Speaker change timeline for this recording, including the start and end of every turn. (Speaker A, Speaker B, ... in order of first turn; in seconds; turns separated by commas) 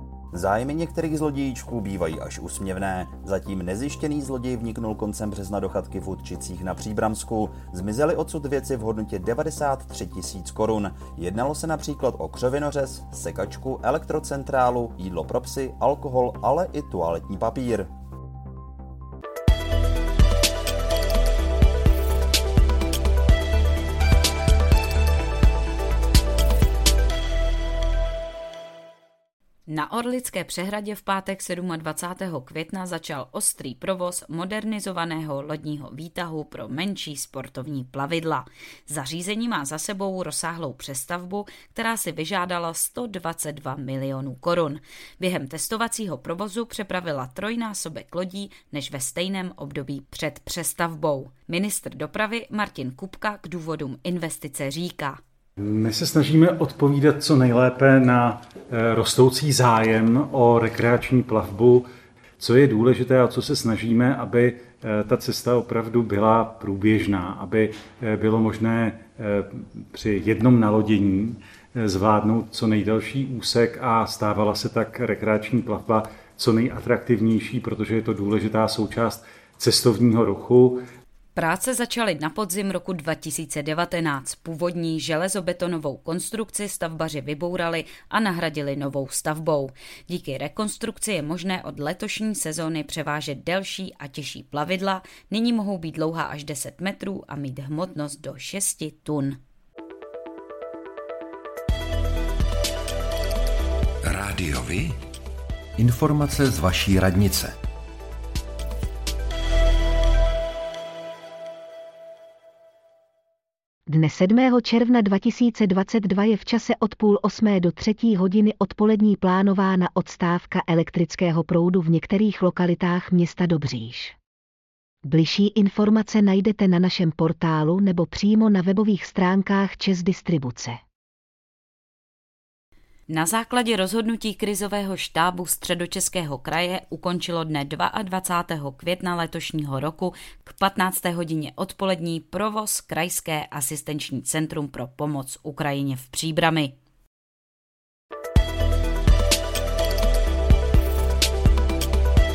Speaker A: 0.3-17.9, Speaker B: 29.7-55.2, Speaker C: 55.8-58.2, Speaker C: 58.8-61.8, Speaker C: 62.4-68.7, Speaker C: 70.0-71.0, Speaker C: 71.9-80.8, Speaker B: 81.3-99.4, Speaker D: 104.0-104.9, Speaker D: 105.8-107.5, Speaker E: 113.9-124.1, Speaker E: 125.0-130.8, Speaker B: 133.1-146.7